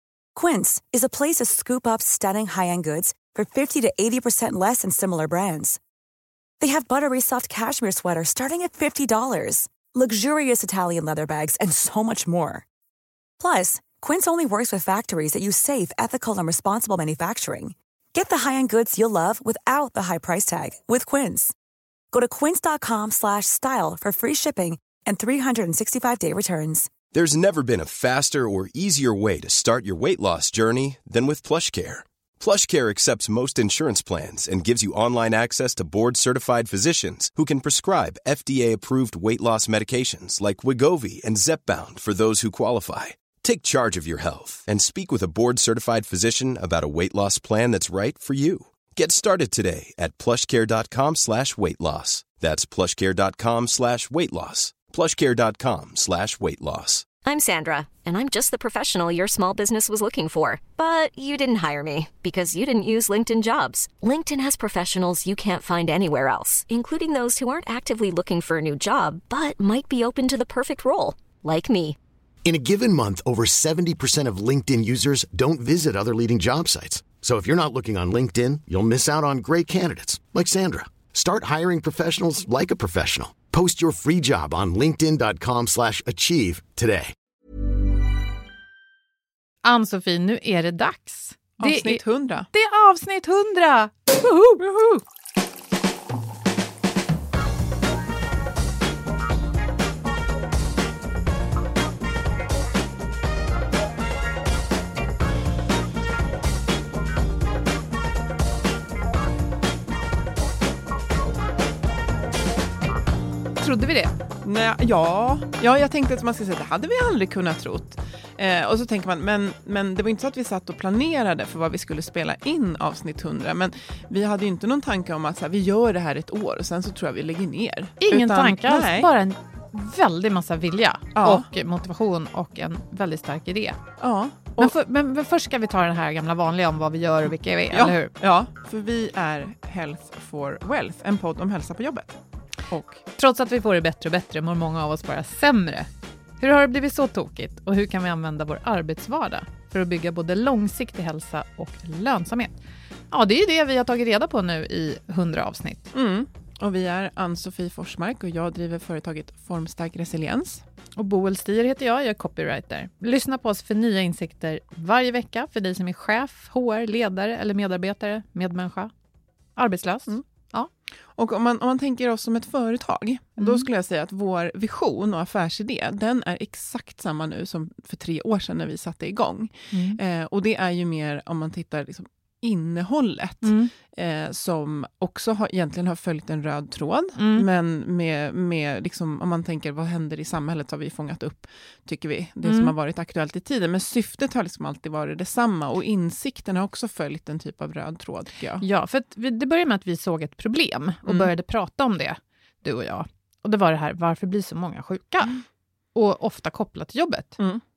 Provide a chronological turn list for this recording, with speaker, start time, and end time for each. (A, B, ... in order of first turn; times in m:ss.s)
0:00.4-0:05.8 A
0:06.6-0:12.6 A
0:13.4-0:21.5 A
0:22.1-0:26.9 A
0:27.1-0:57.1 B
0:57.2-1:12.0 C
1:12.4-1:27.1 D
1:29.6-1:34.6 E
1:31.6-1:32.5 F
1:34.6-1:35.0 F
1:53.6-1:54.2 E
1:54.4-2:09.1 F
2:08.0-2:13.8 E
2:11.2-2:11.5 F
2:14.0-2:14.8 F
2:14.6-2:18.1 E
2:17.7-2:23.0 F
2:23.1-2:25.9 E
2:26.4-2:32.5 E
2:33.1-2:35.9 E
2:35.9-2:40.6 F
2:41.0-2:48.9 E
2:49.6-2:50.7 E
2:51.1-3:18.6 F
2:53.4-2:53.7 E
2:59.7-3:00.0 E
3:03.4-3:03.7 E
3:07.2-3:07.5 E
3:12.4-3:12.7 E
3:18.6-3:25.4 E
3:21.0-3:21.3 F
3:26.0-3:27.4 E